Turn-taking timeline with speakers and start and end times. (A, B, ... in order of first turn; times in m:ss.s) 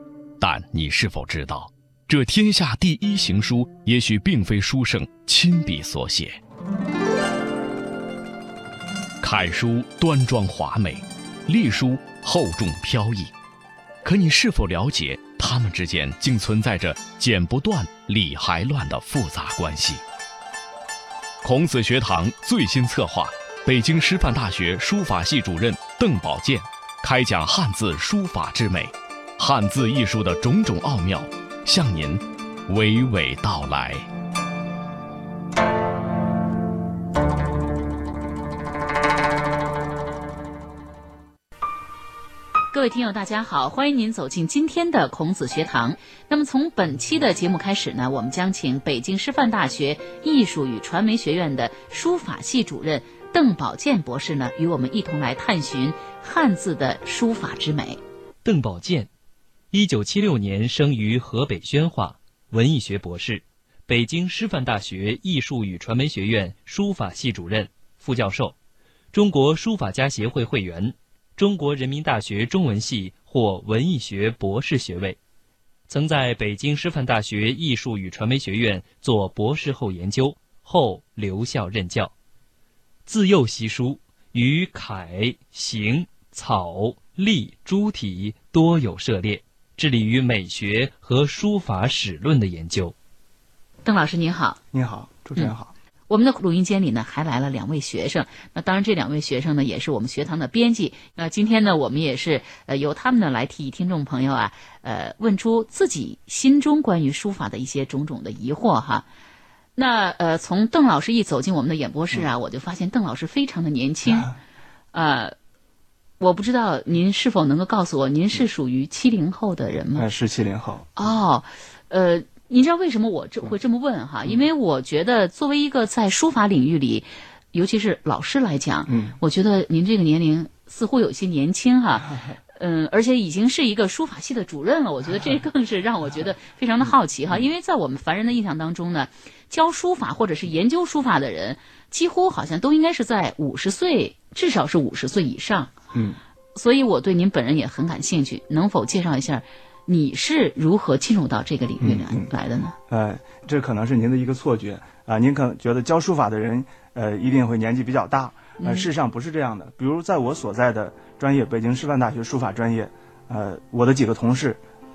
0:00.4-0:06.4 A
0:09.2-0:13.3 A
0:14.0-0:20.0 A
0:21.4-0:34.0 A
0:42.7-0:58.0 B
0:58.4-0:59.1 C
0:59.7-1:08.6 C
1:09.1-1:15.2 C
1:15.9-1:22.1 C
1:23.0-1:32.9 C
1:33.8-1:34.6 B
1:34.7-1:35.7 D
1:36.1-1:49.0 B
1:49.8-1:54.3 B
1:54.1-1:54.3 D
1:54.9-1:55.3 B
1:56.2-2:00.0 B
1:59.9-2:00.9 D
2:01.0-2:25.7 B
2:08.9-2:09.2 D
2:16.9-2:17.4 D
2:25.9-2:26.2 D
2:26.5-2:32.8 B
2:31.8-2:32.3 D
2:32.9-2:44.6 D
2:38.6-2:38.9 B